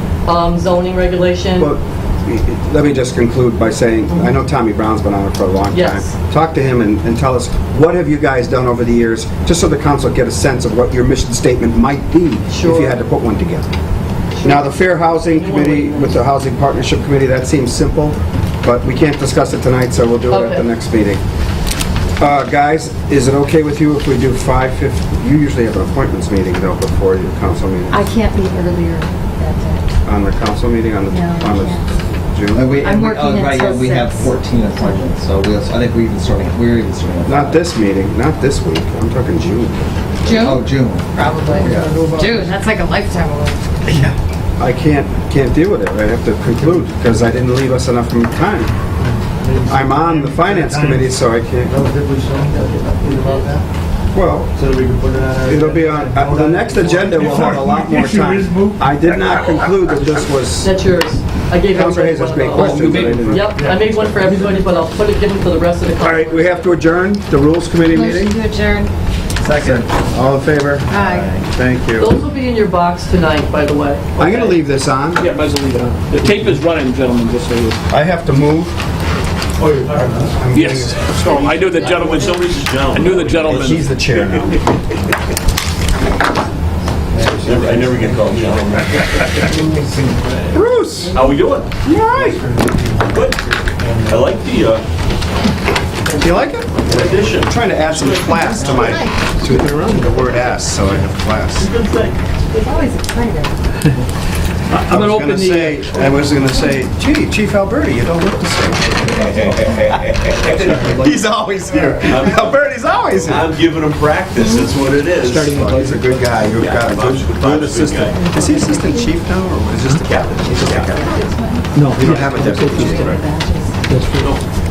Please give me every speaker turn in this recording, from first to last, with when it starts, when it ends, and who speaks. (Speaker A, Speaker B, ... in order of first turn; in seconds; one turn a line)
Speaker A: 0.2-1.7
Speaker B: 1.6-13.7
Speaker A: 5.7-6.1
Speaker A: 12.5-13.0
Speaker A: 14.3-16.2
Speaker B: 14.4-21.2
Speaker A: 20.3-20.7
Speaker B: 22.2-28.1
Speaker C: 27.9-29.8
Speaker B: 30.0-32.8
Speaker C: 31.1-31.8
Speaker D: 32.5-37.6
Speaker C: 32.8-35.0
Speaker B: 37.2-40.0
Speaker D: 40.2-42.0
Speaker C: 40.2-43.7
Speaker E: 41.7-42.5
Speaker D: 43.9-44.1
Speaker B: 44.6-48.7
Speaker E: 49.0-51.2
Speaker B: 49.7-51.7
Speaker E: 51.7-53.6
Speaker A: 52.6-53.5
Speaker B: 54.1-54.5
Speaker E: 54.5-58.9
Speaker B: 55.4-60.7
Speaker A: 60.6-66.8
Speaker B: 61.7-63.5
Speaker F: 62.5-63.5
Speaker E: 63.5-64.7
Speaker B: 66.0-68.4
Speaker C: 67.9-68.9
Speaker D: 69.4-69.9
Speaker B: 69.6-72.1
Speaker C: 70.9-71.3
Speaker D: 71.0-71.4
Speaker A: 72.0-74.6
Speaker B: 74.2-75.2
Speaker F: 75.2-77.8
Speaker B: 77.9-78.8
Speaker E: 79.6-80.4
Speaker G: 79.6-84.9
Speaker B: 80.3-81.5
Speaker F: 80.5-82.3
Speaker F: 82.9-83.9
Speaker B: 83.4-84.6
Speaker D: 87.1-88.4
Speaker G: 87.2-90.5
Speaker E: 87.6-88.3
Speaker D: 89.3-90.2
Speaker B: 90.5-91.2
Speaker G: 91.1-91.7
Speaker B: 91.8-92.4
Speaker E: 92.1-94.4
Speaker G: 93.0-93.5
Speaker G: 94.0-94.8
Speaker B: 96.2-101.7
Speaker G: 96.7-99.0
Speaker E: 96.9-97.4
Speaker C: 98.2-99.2
Speaker F: 99.5-100.1
Speaker G: 101.6-102.2
Speaker C: 102.5-103.5
Speaker F: 104.7-106.3
Speaker B: 104.9-109.8
Speaker G: 109.0-111.2
Speaker F: 110.5-110.9
Speaker B: 110.7-113.5
Speaker G: 112.0-118.3
Speaker C: 114.4-114.7
Speaker F: 115.2-116.1
Speaker B: 115.5-121.2
Speaker C: 118.3-119.1
Speaker G: 119.9-121.0
Speaker C: 120.7-123.8
Speaker F: 121.7-122.9
Speaker B: 122.0-123.2
Speaker G: 122.8-123.2
Speaker F: 123.8-124.4
Speaker G: 124.1-124.4